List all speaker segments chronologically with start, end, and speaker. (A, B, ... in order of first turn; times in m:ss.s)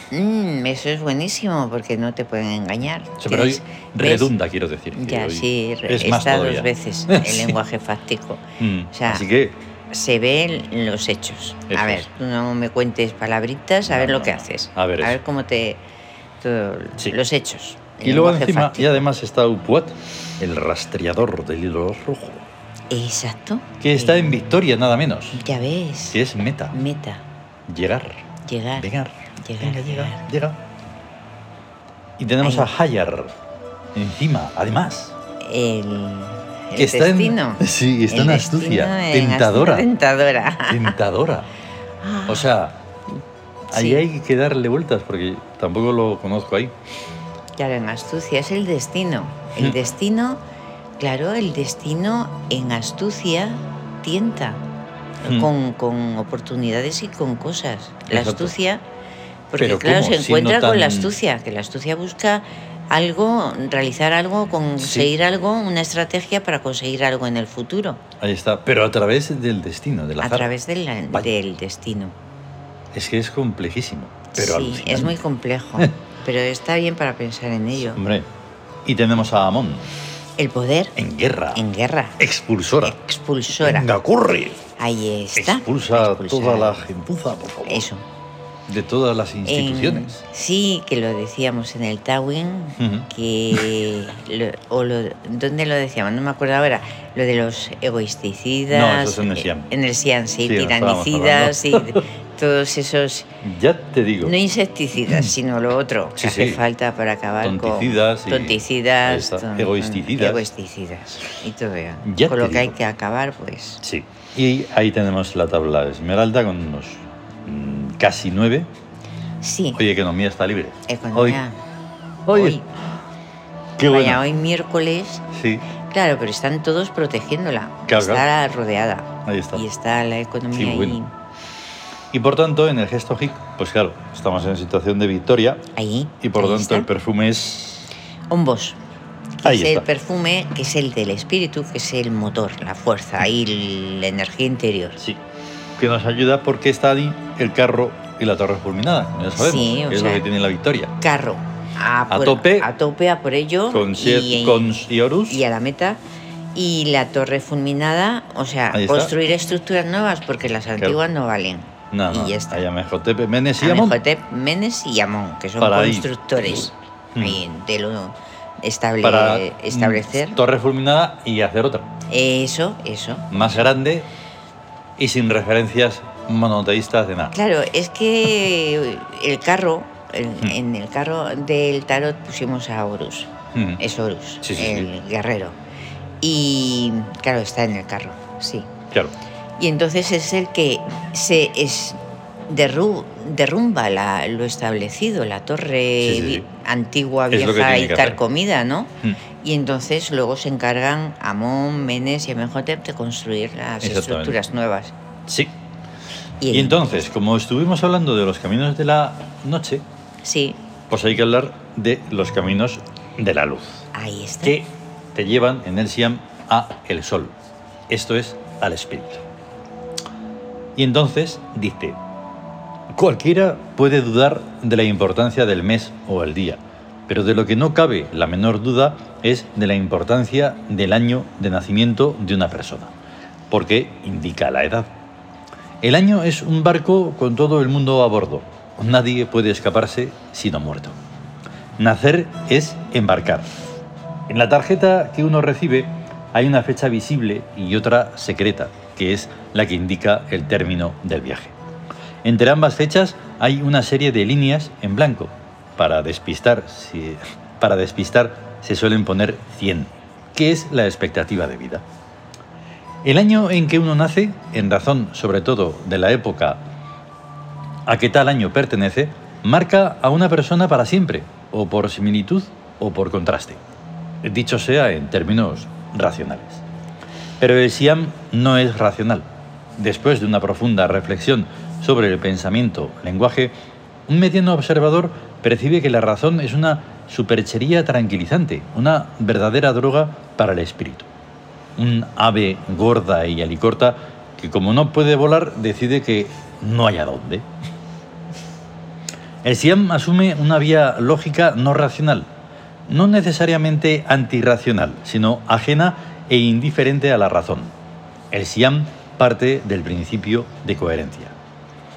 0:00.1-0:04.3 A
0:03.2-0:07.6 B
0:04.9-0:09.2 A
0:08.6-0:09.6 B
0:09.9-0:15.8 A
0:11.7-0:12.0 B
0:13.9-0:15.2 B
0:16.4-0:19.1 A
0:18.0-0:22.4 B
0:22.9-0:24.4 A
0:23.8-0:25.4 B
0:25.3-0:26.2 A
0:26.1-0:26.8 B
0:26.7-0:27.2 A
0:27.7-0:28.2 B
0:28.4-0:30.2 A
0:28.8-0:30.6 B
0:32.2-0:33.3 B
0:32.4-0:32.7 A
0:33.9-0:35.1 B
0:35.4-0:40.9 A
0:36.7-0:39.9 B
0:40.7-0:41.5 B
0:42.0-0:42.5 A
0:42.3-0:42.8 B
0:43.7-0:46.7 B
0:43.7-0:44.0 A
0:47.6-0:50.4 A
0:51.0-0:54.6 A
0:55.2-0:58.8 A
0:58.1-0:58.5 B
0:59.5-1:08.0 A
0:59.6-1:01.1 B
1:04.8-1:05.1 B
1:08.2-1:10.5 B
1:10.2-1:12.1 A
1:12.9-1:15.2 B
1:14.3-1:18.0 A
1:17.9-1:18.3 B
1:18.8-1:19.9 B
1:20.4-1:20.9 A
1:21.0-1:21.6 B
1:21.5-1:22.2 A
1:22.2-1:23.0 B
1:22.8-1:23.9 A
1:23.6-1:24.6 B
1:24.8-1:26.8 A
1:25.4-1:27.8 B
1:27.6-1:28.0 A
1:28.7-1:30.2 B
1:29.4-1:43.3 A
1:32.8-1:33.8 B
1:38.7-1:39.7 B
1:40.4-1:42.0 B
1:43.4-1:44.4 B
1:44.2-1:53.8 A
1:45.0-1:45.3 B
1:46.2-1:46.6 B
1:47.4-1:50.4 B
1:52.0-1:52.7 B
1:53.8-1:58.7 B
1:59.4-1:59.8 A
1:59.7-2:01.4 B
2:00.9-2:01.6 A
2:02.3-2:02.6 B
2:02.3-2:02.7 A
2:03.8-2:04.2 B
2:03.9-2:05.2 A
2:05.3-2:05.7 B
2:05.9-2:11.1 A
2:07.9-2:08.2 B
2:09.2-2:09.6 B
2:10.5-2:11.0 B
2:12.1-2:15.6 B
2:15.7-2:16.9 A
2:16.2-2:17.9 B
2:18.3-2:18.8 A
2:19.4-2:25.0 A
2:19.4-2:19.8 B
2:25.8-2:30.9 B
2:29.4-2:30.2 A
2:31.0-2:36.0 A
2:32.1-2:32.7 B
2:33.7-2:35.4 B
2:36.5-2:42.6 A
2:38.7-2:39.1 B
2:41.9-2:44.0 B
2:43.6-2:50.4 A
2:45.6-2:46.1 B
2:47.1-2:47.4 B
2:49.0-2:51.9 B
2:52.1-2:53.7 A
2:53.3-2:54.1 B
2:55.0-2:57.3 B
2:57.3-3:05.6 A
3:03.5-3:03.8 B
3:04.4-3:04.9 B
3:06.2-3:08.7 A
3:09.6-3:18.9 A
3:16.0-3:16.4 B
3:17.3-3:18.2 B
3:19.4-3:24.9 A
3:23.8-3:24.4 B
3:25.3-3:25.5 B
3:26.4-3:27.0 A
3:26.5-3:29.8 B
3:30.2-3:30.6 A
3:30.9-3:33.9 B
3:33.9-3:34.6 A
3:34.4-3:37.3 B
3:37.9-3:39.2 B
3:40.8-3:42.0 B
3:42.9-3:52.9 B
3:53.5-3:54.9 B
3:55.8-4:01.0 B
4:01.8-4:03.5 B
4:04.3-4:11.5 B
4:12.2-4:21.8 B
4:23.0-4:26.6 B
4:27.9-4:33.6 B
4:34.2-4:36.6 B
4:37.4-4:39.3 B
4:39.8-4:43.5 B
4:44.1-4:51.1 B
4:51.8-4:57.4 B
4:59.4-5:02.3 B
5:02.9-5:07.7 B
5:08.3-5:11.3 B